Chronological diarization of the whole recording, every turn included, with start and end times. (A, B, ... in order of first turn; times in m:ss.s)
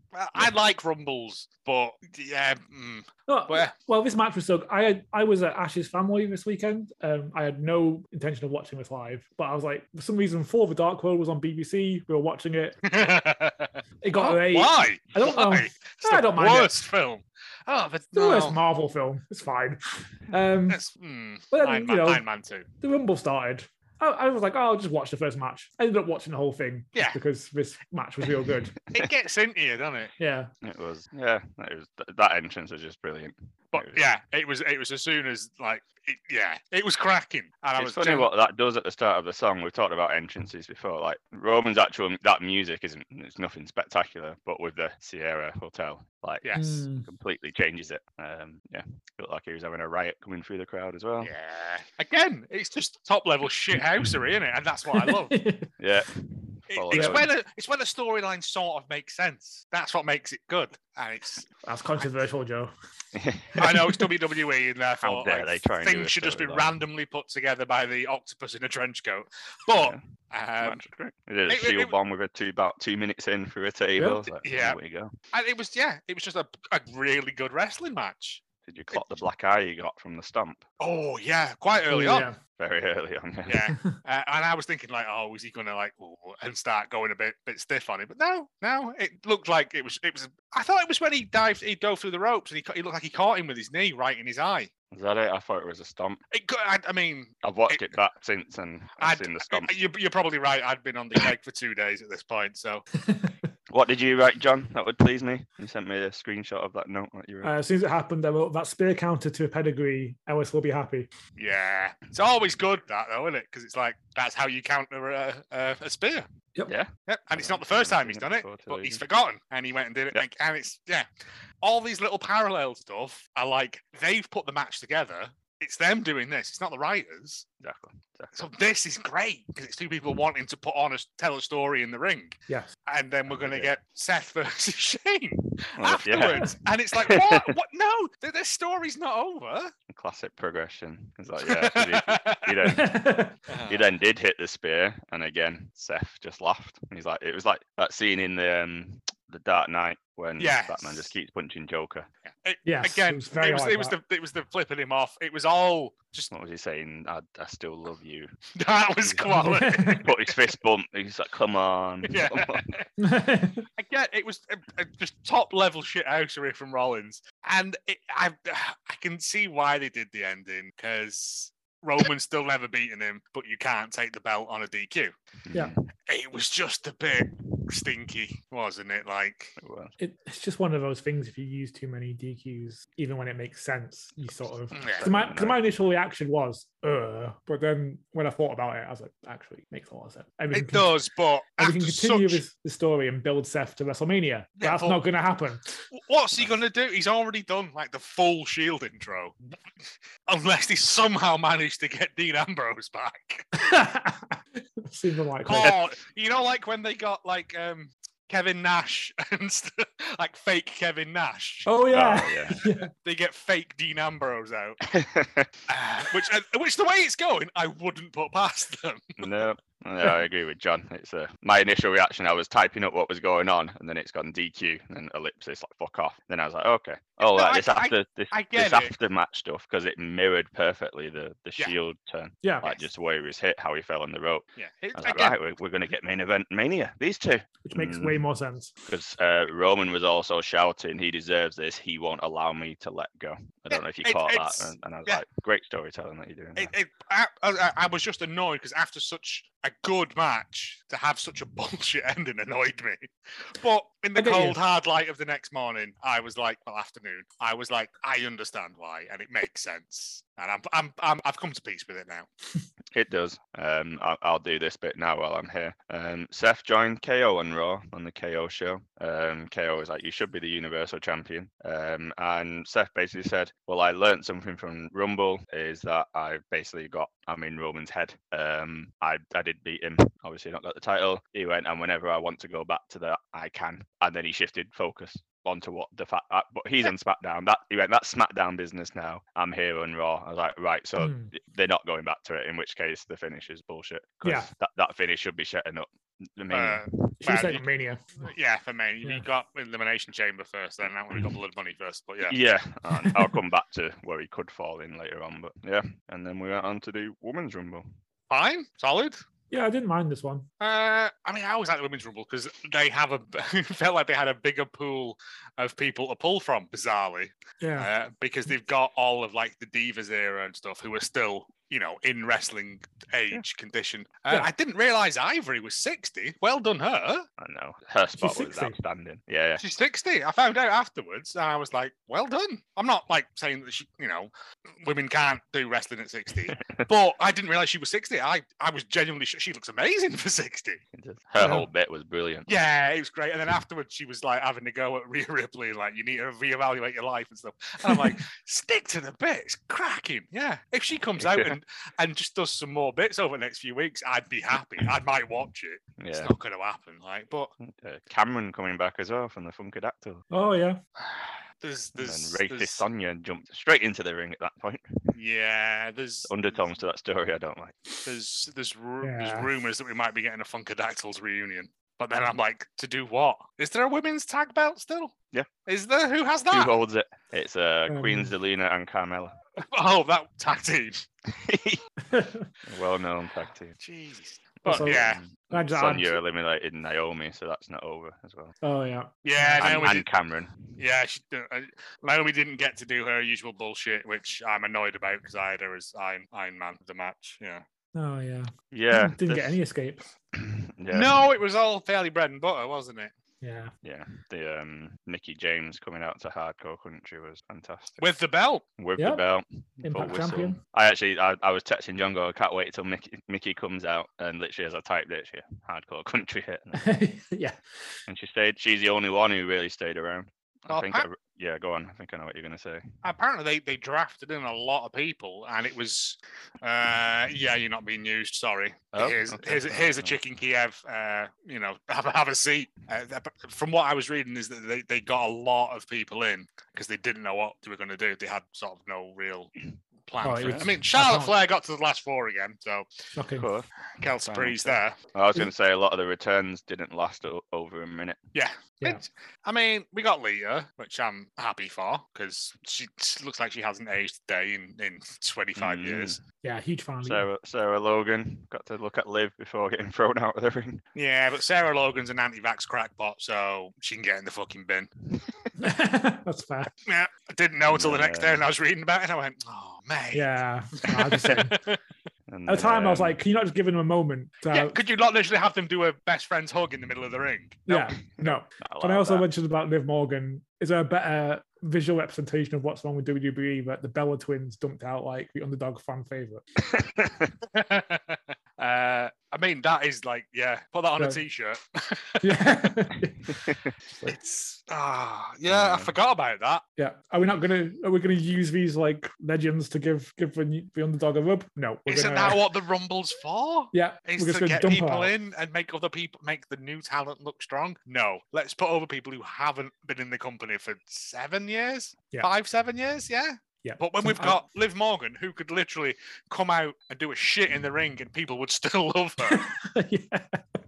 0:00.1-0:03.7 A
0:03.3-0:12.8 B
0:12.8-0:18.6 A
0:14.0-0:16.7 B
0:18.1-0:20.8 B
0:20.7-0:22.7 A
0:21.5-0:22.2 B
0:22.8-0:28.8 B
0:26.9-0:27.2 A
0:28.9-0:30.1 A
0:30.2-0:30.5 B
0:30.6-0:34.1 C
0:33.7-0:38.3 A
0:37.8-0:51.3 C
0:46.4-0:46.8 A
0:46.6-0:47.1 B
0:51.2-0:55.4 A
0:54.9-0:55.7 B
0:55.8-0:57.3 C
0:56.7-1:01.5 A
0:56.9-0:57.2 B
1:01.6-1:02.7 B
1:03.1-1:03.6 C
1:03.6-1:04.1 B
1:03.6-1:10.8 A
1:05.0-1:06.7 C
1:10.6-1:15.1 C
1:11.5-1:11.9 A
1:14.0-1:14.2 B
1:14.4-1:14.8 A
1:15.3-1:19.0 A
1:18.6-1:20.6 C
1:20.8-1:22.3 A
1:21.9-1:22.4 B
1:22.6-1:23.6 C
1:23.5-1:34.7 A
1:34.9-1:36.2 C
1:36.3-1:37.9 A
1:37.4-1:39.7 C
1:39.0-1:42.8 A
1:43.0-1:43.3 B
1:43.7-1:47.5 C
1:47.4-1:51.1 B
1:51.4-1:56.3 A
1:56.6-1:59.0 C
1:57.1-2:01.1 A
2:01.6-2:07.5 A
2:07.6-2:08.4 C
2:08.3-2:19.7 A
2:13.3-2:13.7 C
2:15.8-2:16.5 C
2:17.0-2:17.5 C
2:19.9-2:23.1 C
2:21.4-2:22.6 A
2:22.6-2:23.4 B
2:23.5-2:23.8 A
2:23.7-2:32.1 C
2:30.4-2:31.1 A
2:32.4-2:36.3 A
2:32.6-2:34.0 B
2:36.3-2:38.3 C
2:38.6-2:40.3 A
2:39.0-2:39.3 C
2:39.2-2:40.1 B
2:39.9-2:42.6 C
2:42.0-2:42.8 A
2:43.0-2:43.6 B
2:43.8-2:55.1 A
2:55.5-2:55.8 C
2:56.1-2:59.6 A
2:59.6-2:59.9 C
3:00.0-3:10.9 B
3:04.7-3:05.1 A
3:04.9-3:05.6 C
3:10.5-3:12.4 A
3:11.6-3:15.8 B
3:14.6-3:15.0 A
3:15.9-3:19.4 A
3:20.3-3:23.5 A
3:23.6-3:25.8 B
3:25.5-3:31.7 A
3:31.6-3:32.9 B
3:31.9-3:32.6 C
3:32.9-3:34.8 A
3:34.9-3:35.5 C
3:35.7-3:39.3 A
3:39.2-3:58.2 C
3:47.2-3:48.9 A
3:52.4-3:52.7 B
3:54.6-3:55.4 A
3:57.6-3:58.7 B
3:58.8-4:06.7 C
4:03.7-4:05.2 A
4:06.6-4:22.3 A
4:14.2-4:14.6 B
4:22.9-4:56.8 C
4:51.0-4:51.3 B
4:54.2-4:54.5 B
4:56.5-4:57.6 A
4:57.2-4:58.2 B
4:58.2-5:02.4 A
5:02.3-5:07.9 C
5:08.3-5:09.2 A
5:09.5-5:10.5 B
5:10.6-5:27.2 A
5:17.6-5:17.9 B
5:27.4-5:29.6 C
5:28.2-5:28.8 B
5:29.6-5:34.3 A
5:34.8-5:40.8 A
5:40.9-5:42.5 C
5:41.4-5:41.6 B
5:42.5-5:57.5 A
5:51.2-5:51.5 C
5:56.0-5:56.3 C
5:57.6-6:00.2 C
6:00.3-6:00.8 B
6:01.6-6:02.8 A
6:02.0-6:04.8 C
6:05.1-6:06.6 A
6:06.3-6:07.8 C
6:08.0-6:15.2 A
6:09.0-6:09.5 B
6:15.6-6:16.7 A
6:16.5-6:19.4 C
6:17.9-6:18.3 B
6:19.6-6:21.0 A
6:21.3-6:21.8 C
6:22.1-6:22.5 B
6:22.6-6:23.8 C
6:23.8-6:25.2 A
6:24.6-6:28.5 C
6:24.6-6:26.2 B
6:28.6-6:29.9 B
6:29.2-6:30.1 A
6:29.6-6:30.6 C
6:30.8-6:37.6 A
6:37.9-6:40.1 B
6:38.7-6:39.6 C
6:40.3-6:41.1 C
6:40.9-6:43.1 A
6:43.4-6:43.7 B
6:43.8-6:48.0 C
6:48.0-6:48.6 A
6:48.8-6:56.8 C
6:49.0-6:49.2 B
6:49.8-6:50.6 B
6:56.7-6:57.6 B
6:58.1-7:02.8 C
7:00.7-7:01.1 A
7:03.0-7:19.5 A
7:08.9-7:10.2 C
7:20.1-7:22.9 A
7:20.2-7:21.3 B
7:23.2-7:23.5 B
7:23.4-7:23.7 C
7:24.0-7:25.0 A
7:24.2-7:28.2 C
7:28.3-7:36.2 A
7:35.6-7:36.2 C
7:36.4-7:37.2 B
7:37.0-7:40.8 C
7:40.9-7:44.9 A
7:45.6-7:46.7 B
7:46.9-7:51.8 A
7:47.7-7:48.4 C
7:50.1-7:51.6 B
7:52.3-7:53.2 C
7:52.5-7:54.8 B
7:54.5-7:58.3 A
7:57.7-8:06.4 B
7:58.2-7:59.2 C
8:06.7-8:07.3 C
8:07.5-8:12.5 A
8:12.2-8:14.2 B
8:14.1-8:16.6 A
8:15.5-8:15.9 C
8:16.8-8:22.4 B
8:21.9-8:39.5 A
8:23.7-8:25.1 B
8:33.6-8:34.4 B
8:39.2-8:40.6 B